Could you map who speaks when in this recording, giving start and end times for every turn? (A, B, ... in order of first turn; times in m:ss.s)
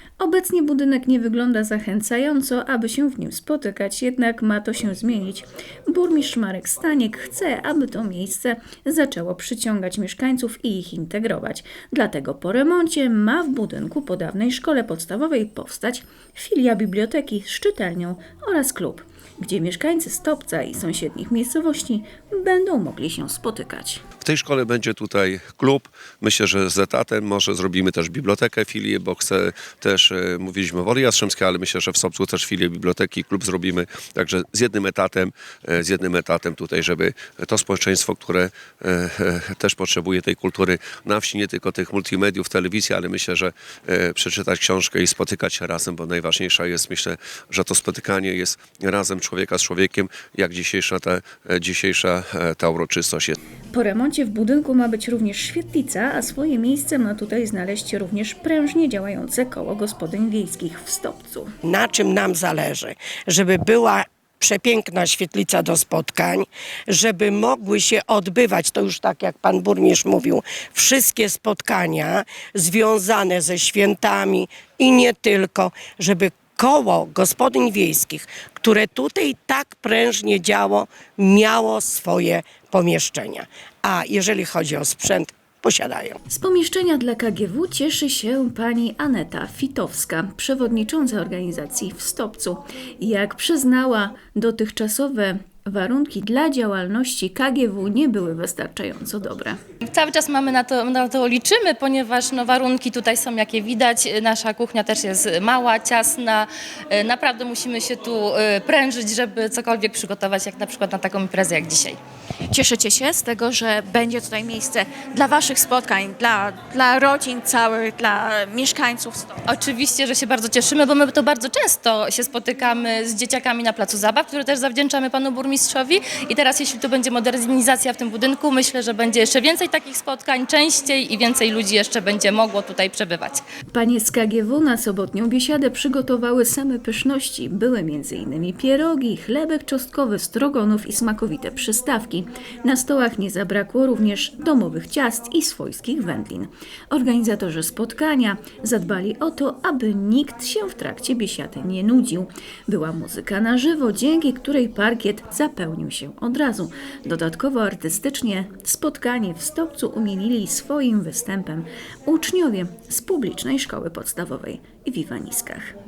0:00.2-0:24.0 A
0:24.2-0:53.4 B
0:53.7-1:01.5 A
1:01.7-1:26.2 C
1:26.3-1:39.6 A
1:39.9-1:52.0 D
1:52.5-1:59.3 E
1:59.4-2:13.4 D
2:13.7-2:45.7 A